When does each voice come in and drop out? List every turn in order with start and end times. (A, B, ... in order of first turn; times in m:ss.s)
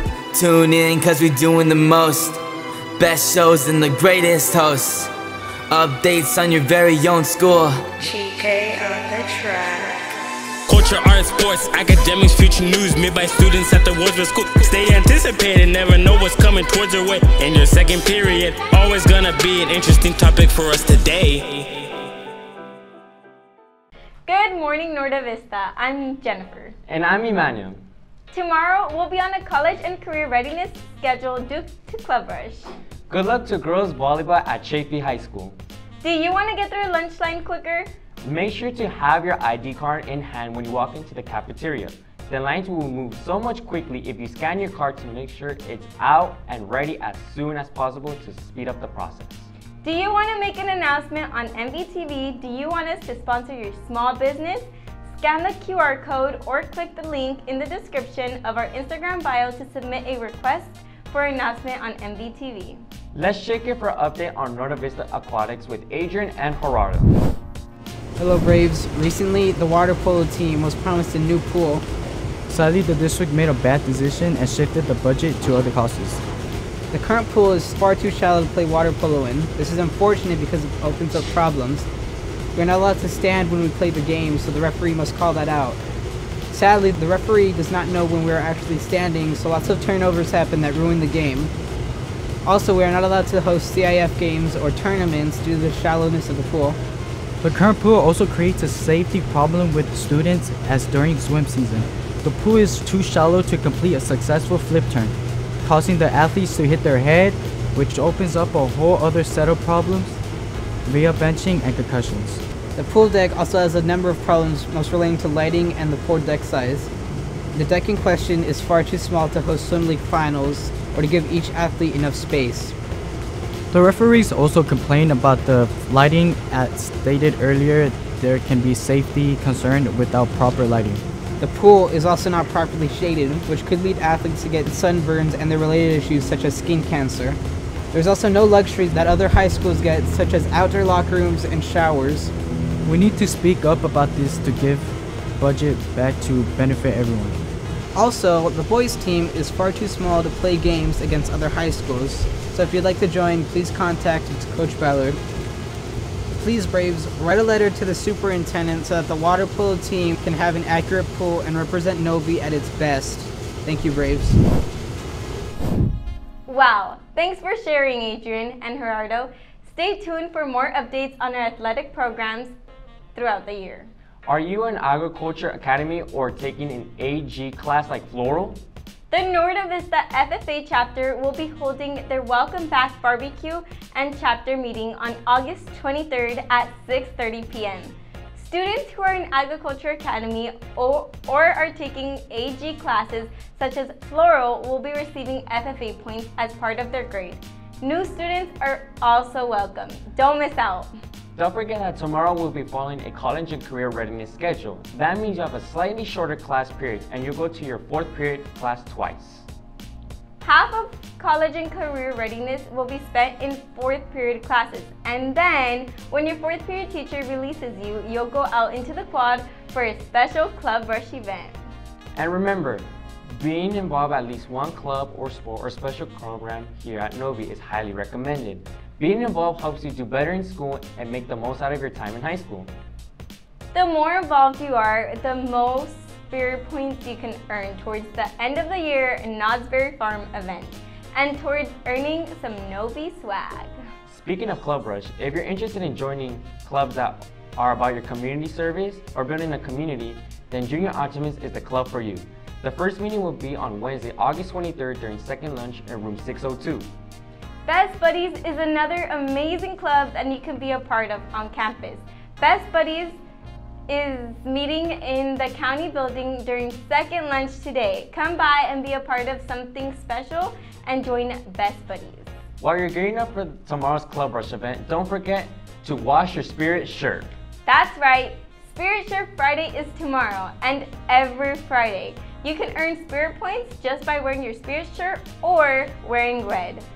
0:00.3-0:02.4 A
0:03.0-0:05.1 A
0:05.7-0:07.8 A
0:08.0-0:10.2 B
0:10.7-0:21.7 C
0:24.3-0:26.8 D
0:26.9-0:27.8 E
0:28.3-0:32.7 D
0:33.1-0:35.6 E
0:36.0-0:37.9 D
0:38.2-0:49.5 E
0:49.8-1:02.8 D
1:03.1-1:07.2 E
1:08.2-1:11.8 F
1:12.5-1:16.2 G
1:16.9-1:21.9 F
1:22.6-1:25.8 F
1:26.5-1:31.5 F
1:32.4-1:36.8 F
1:37.4-1:50.2 G
1:50.9-1:52.4 G
1:52.8-1:56.9 F
1:57.5-2:02.7 F
2:03.7-2:11.0 G
2:11.4-2:17.4 F
2:17.9-2:22.3 F
2:22.8-2:27.4 G
2:27.9-2:35.2 F
2:36.4-2:44.4 F
2:46.5-2:52.6 D
2:53.1-2:53.9 D
2:54.2-2:58.6 E
2:59.1-3:20.9 D
3:21.4-3:29.5 E
3:30.4-3:41.6 D
3:42.2-3:52.7 E
3:53.7-4:03.7 D
4:04.1-4:16.9 E
4:17.7-4:23.2 D
4:23.9-4:32.3 D
4:32.6-4:37.3 E
4:37.7-4:46.8 D